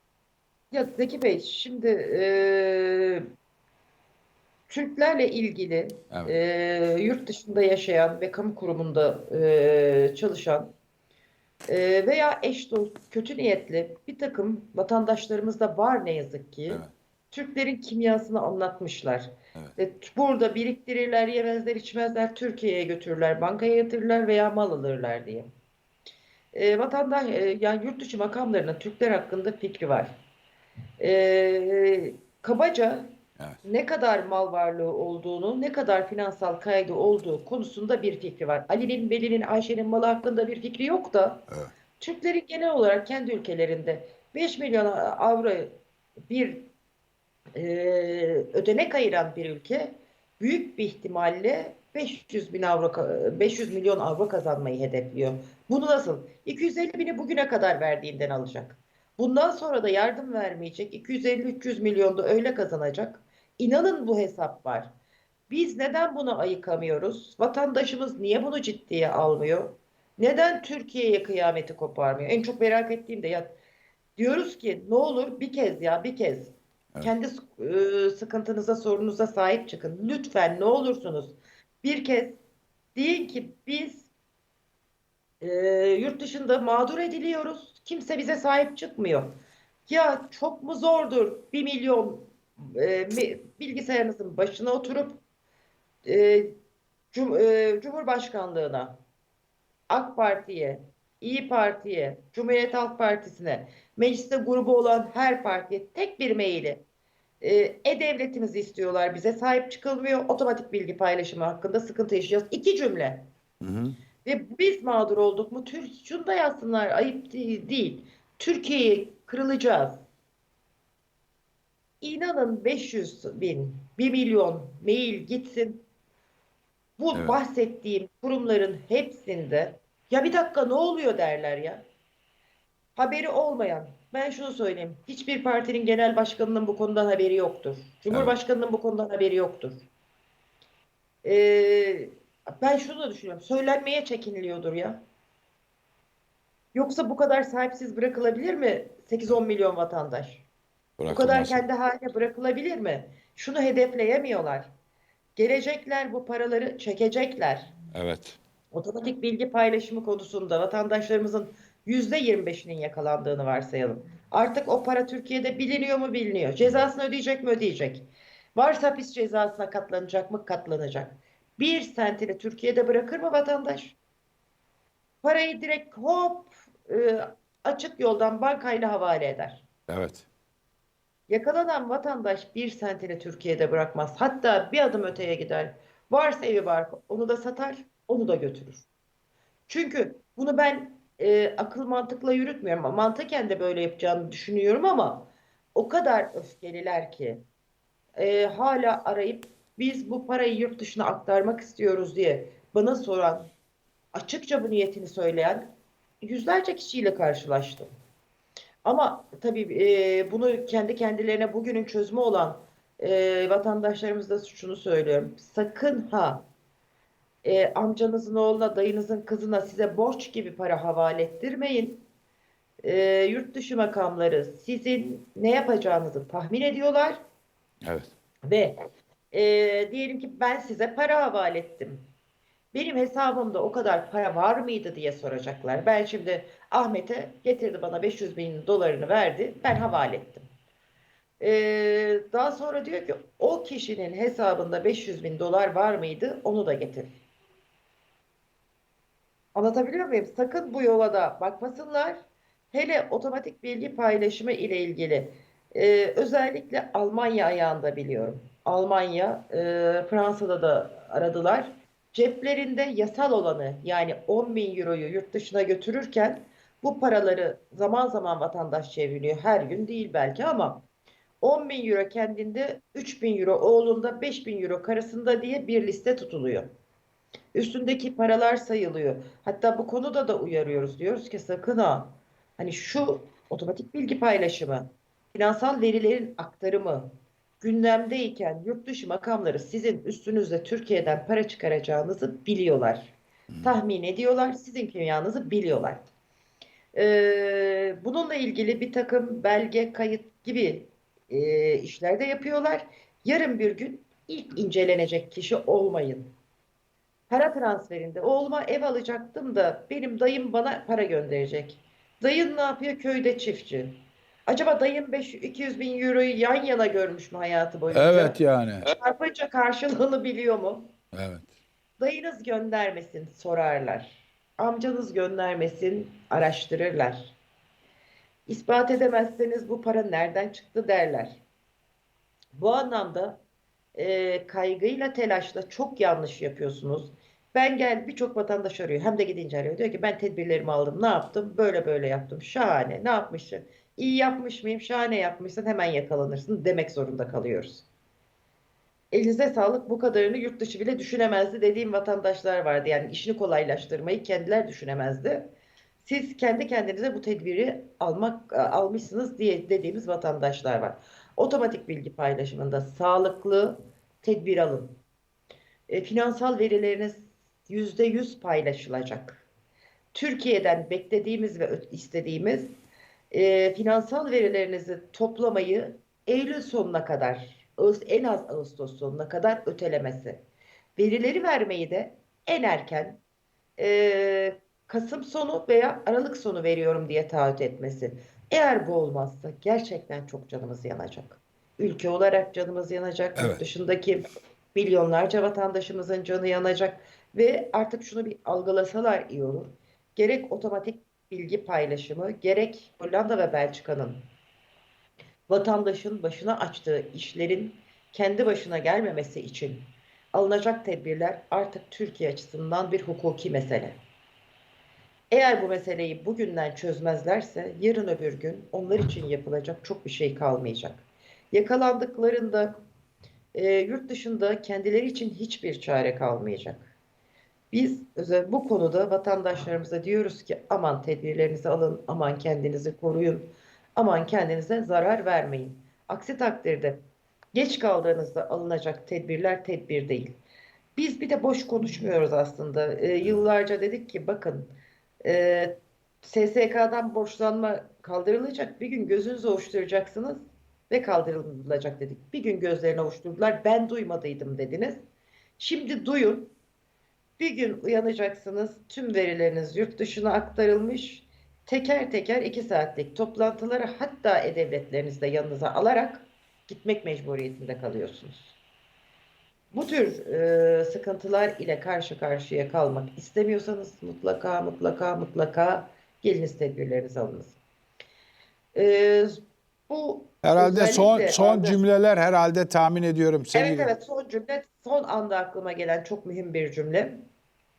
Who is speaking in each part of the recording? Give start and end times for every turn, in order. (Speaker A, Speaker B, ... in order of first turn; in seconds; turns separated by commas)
Speaker A: 0.7-3.2, Speaker A: 4.7-10.8, Speaker B: 6.1-6.3, Speaker A: 11.7-25.5, Speaker A: 26.5-30.2, Speaker A: 31.0-41.5, Speaker A: 42.0-46.7, Speaker A: 47.6-64.9, Speaker A: 65.5-73.5, Speaker A: 74.2-82.4, Speaker A: 83.0-84.1, Speaker A: 85.4-95.2, Speaker A: 96.0-96.5, Speaker A: 97.1-99.0, Speaker A: 99.9-106.8, Speaker A: 107.4-113.3, Speaker B: 113.6-114.0, Speaker A: 114.2-120.0, Speaker A: 122.0-125.9, Speaker A: 127.0-131.9, Speaker B: 127.1-127.4, Speaker A: 133.0-139.8, Speaker A: 141.2-145.0, Speaker A: 146.7-150.4, Speaker B: 151.0-151.6, Speaker A: 151.1-154.7, Speaker A: 155.4-157.7, Speaker B: 157.9-158.4, Speaker A: 158.7-174.0, Speaker A: 175.2-179.7, Speaker B: 179.9-180.2, Speaker A: 181.3-188.9, Speaker A: 189.7-197.4, Speaker A: 198.2-203.5, Speaker A: 204.1-205.7, Speaker A: 206.2-207.9, Speaker A: 208.8-216.5, Speaker A: 217.4-222.1, Speaker A: 222.8-227.2, Speaker B: 227.8-228.1, Speaker A: 228.5-228.8, Speaker A: 229.3-232.1, Speaker A: 232.7-240.5, Speaker A: 241.4-247.2, Speaker A: 249.6-270.9, Speaker A: 271.4-276.7, Speaker A: 277.5-296.0, Speaker B: 293.5-293.8, Speaker A: 296.9-306.4, Speaker A: 307.3-320.9, Speaker B: 317.9-318.9, Speaker B: 321.1-321.5, Speaker A: 322.0-327.4, Speaker A: 328.5-331.4, Speaker A: 332.6-333.4, Speaker A: 333.9-347.9, Speaker A: 349.1-355.5, Speaker A: 356.0-365.0, Speaker A: 365.9-369.4, Speaker A: 370.1-372.7, Speaker A: 373.3-380.4, Speaker A: 381.0-383.2, Speaker A: 383.8-394.2, Speaker B: 393.4-393.6, Speaker A: 394.8-404.3, Speaker A: 405.5-414.0, Speaker A: 415.3-422.8, Speaker A: 423.5-426.9, Speaker A: 427.7-440.4, Speaker A: 441.0-455.0, Speaker A: 455.6-456.5, Speaker A: 457.4-468.6, Speaker A: 469.7-477.6, Speaker A: 478.7-481.8, Speaker B: 480.4-483.9, Speaker A: 483.5-487.3